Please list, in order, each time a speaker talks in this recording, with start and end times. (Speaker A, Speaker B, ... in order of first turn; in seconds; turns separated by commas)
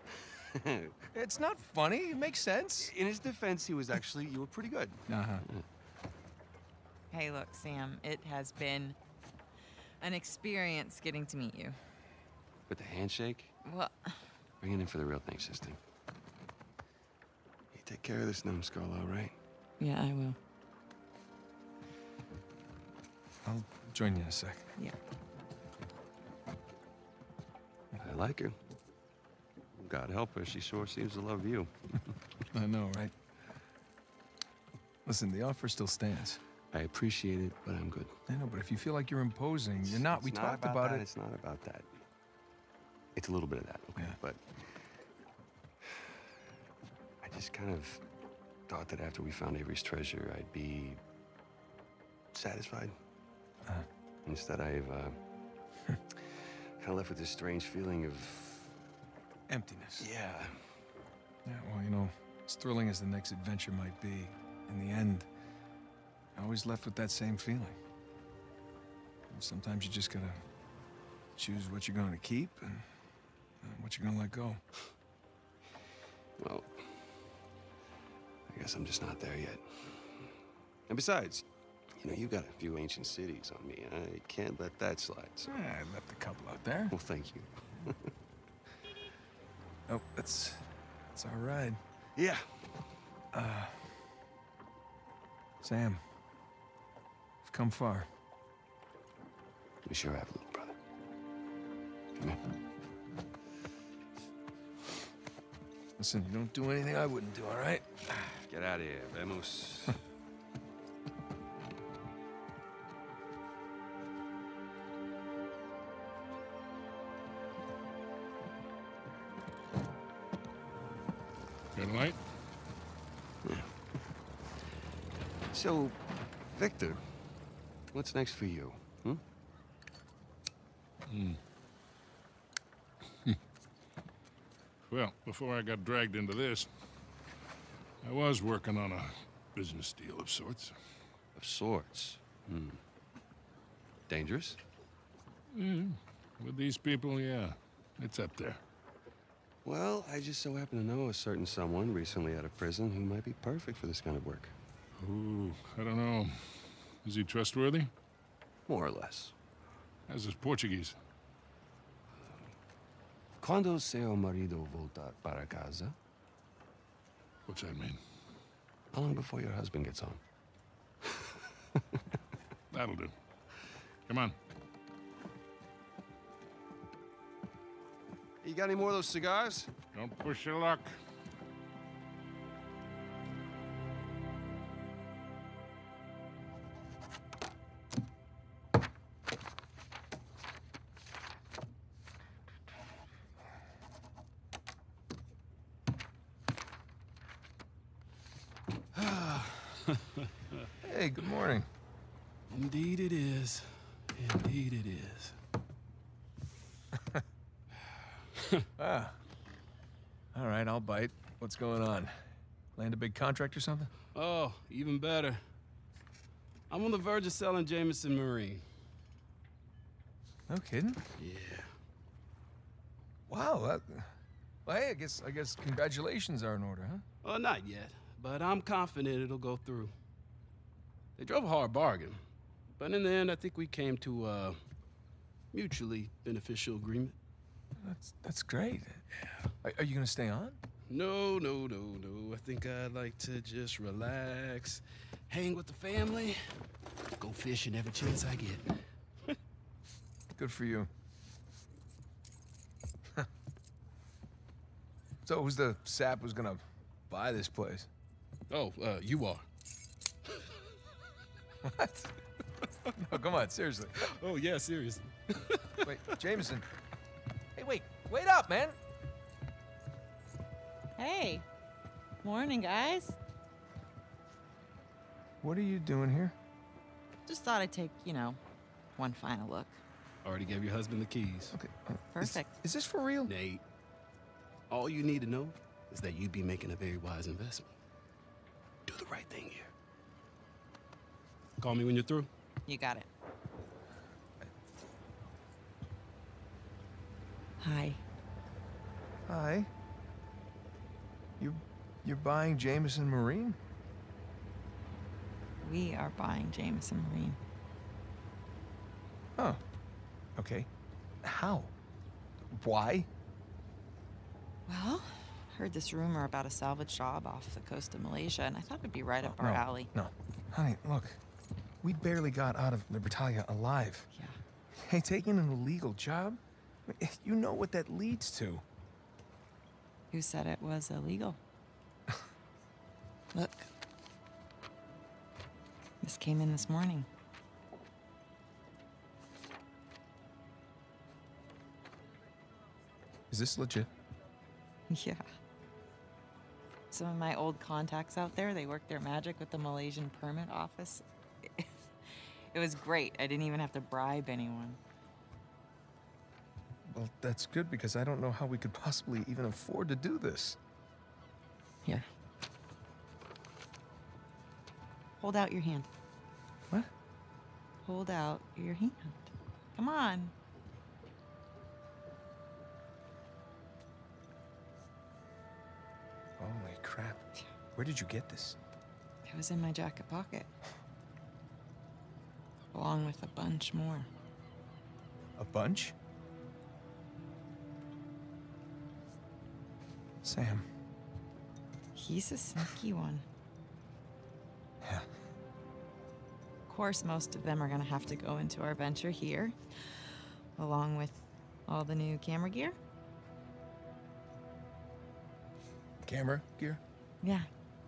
Speaker A: 0.5-1.0, Speaker B: 1.1-2.9, Speaker A: 2.8-5.7, Speaker B: 5.1-5.5, Speaker C: 7.1-9.0, Speaker C: 10.0-11.8, Speaker A: 12.7-13.5, Speaker C: 13.7-14.2, Speaker A: 14.6-15.8, Speaker A: 17.7-19.4, Speaker C: 19.8-20.4, Speaker B: 23.4-24.7, Speaker A: 28.0-28.6, Speaker A: 29.8-31.7, Speaker B: 32.5-33.1, Speaker B: 35.0-36.4, Speaker A: 36.7-38.1, Speaker B: 38.3-41.0, Speaker A: 39.9-41.9, Speaker A: 43.2-44.9, Speaker A: 47.2-48.0, Speaker A: 48.7-51.0, Speaker A: 52.3-53.0, Speaker A: 54.3-55.2, Speaker A: 56.1-58.8, Speaker B: 59.5-60.1, Speaker A: 60.0-60.7, Speaker B: 61.5-65.3, Speaker B: 66.3-67.8, Speaker B: 69.3-70.4, Speaker B: 71.4-72.9, Speaker B: 73.6-74.6, Speaker A: 76.4-77.1, Speaker A: 78.5-80.3, Speaker A: 80.9-81.5, Speaker A: 82.0-85.5, Speaker B: 85.5-87.0, Speaker A: 86.9-88.1, Speaker B: 89.9-91.8, Speaker A: 92.2-92.5, Speaker B: 93.3-94.0, Speaker B: 95.6-96.0, Speaker B: 97.4-98.1, Speaker A: 99.8-100.8, Speaker B: 106.0-108.4, Speaker A: 108.5-110.0, Speaker D: 121.8-122.2, Speaker A: 123.4-123.7, Speaker A: 125.5-127.1, Speaker A: 127.9-129.2, Speaker D: 131.1-131.4, Speaker D: 134.9-136.7, Speaker D: 138.0-140.8, Speaker A: 141.3-142.8, Speaker A: 144.1-144.6, Speaker D: 145.5-148.6, Speaker A: 149.7-154.5, Speaker D: 155.0-157.9, Speaker A: 158.7-159.3, Speaker D: 160.1-161.0, Speaker A: 163.4-166.0, Speaker D: 167.5-168.0, Speaker A: 168.9-170.2, Speaker D: 172.7-173.1, Speaker D: 174.1-174.3, Speaker A: 178.4-179.7, Speaker D: 179.9-181.0, Speaker E: 198.9-200.1, Speaker B: 200.8-201.7, Speaker E: 202.5-205.4, Speaker B: 207.0-207.2, Speaker E: 208.4-208.7, Speaker B: 208.8-209.2, Speaker B: 210.3-212.1, Speaker B: 212.8-213.9, Speaker E: 214.2-215.4, Speaker E: 216.7-218.7, Speaker B: 220.5-221.0, Speaker E: 221.2-221.7, Speaker B: 223.3-224.1, Speaker B: 224.7-227.1, Speaker E: 227.2-229.9, Speaker E: 231.2-232.2, Speaker E: 232.8-234.6, Speaker E: 235.5-237.2, Speaker B: 237.8-239.1, Speaker B: 239.6-240.6, Speaker E: 240.9-246.4, Speaker E: 247.2-248.8, Speaker B: 250.4-250.9, Speaker B: 255.2-257.9, Speaker E: 258.5-259.5, Speaker B: 261.6-262.1, Speaker B: 262.9-264.0, Speaker E: 264.0-266.1, Speaker B: 265.8-266.7, Speaker B: 267.6-268.8, Speaker C: 271.0-271.4, Speaker C: 272.2-273.2, Speaker B: 275.4-276.4, Speaker C: 277.3-278.4, Speaker C: 279.0-279.8, Speaker E: 280.2-281.6, Speaker B: 281.5-283.3, Speaker C: 282.1-282.5, Speaker E: 283.3-283.6, Speaker E: 284.7-287.7, Speaker E: 288.9-289.7, Speaker E: 291.6-292.3, Speaker C: 292.7-293.1, Speaker C: 297.6-298.0, Speaker B: 299.3-299.7, Speaker B: 301.4-303.6, Speaker C: 305.6-307.4, Speaker B: 310.4-310.7, Speaker B: 311.2-311.7, Speaker B: 312.5-313.1, Speaker C: 314.7-319.9, Speaker B: 319.2-321.2, Speaker B: 321.8-324.1, Speaker B: 324.7-328.6, Speaker C: 330.1-331.4, Speaker C: 333.3-333.7, Speaker C: 336.0-337.1, Speaker B: 343.3-343.9, Speaker C: 344.9-345.3, Speaker C: 346.9-354.8, Speaker B: 356.9-360.6, Speaker C: 365.2-365.9, Speaker C: 367.8-370.3, Speaker B: 376.4-378.6, Speaker C: 379.2-380.5, Speaker C: 382.7-384.1, Speaker B: 385.4-385.9, Speaker B: 390.2-390.6, Speaker C: 391.9-393.2, Speaker B: 394.8-395.1, Speaker C: 396.7-402.8, Speaker B: 406.0-406.8, Speaker C: 407.2-407.5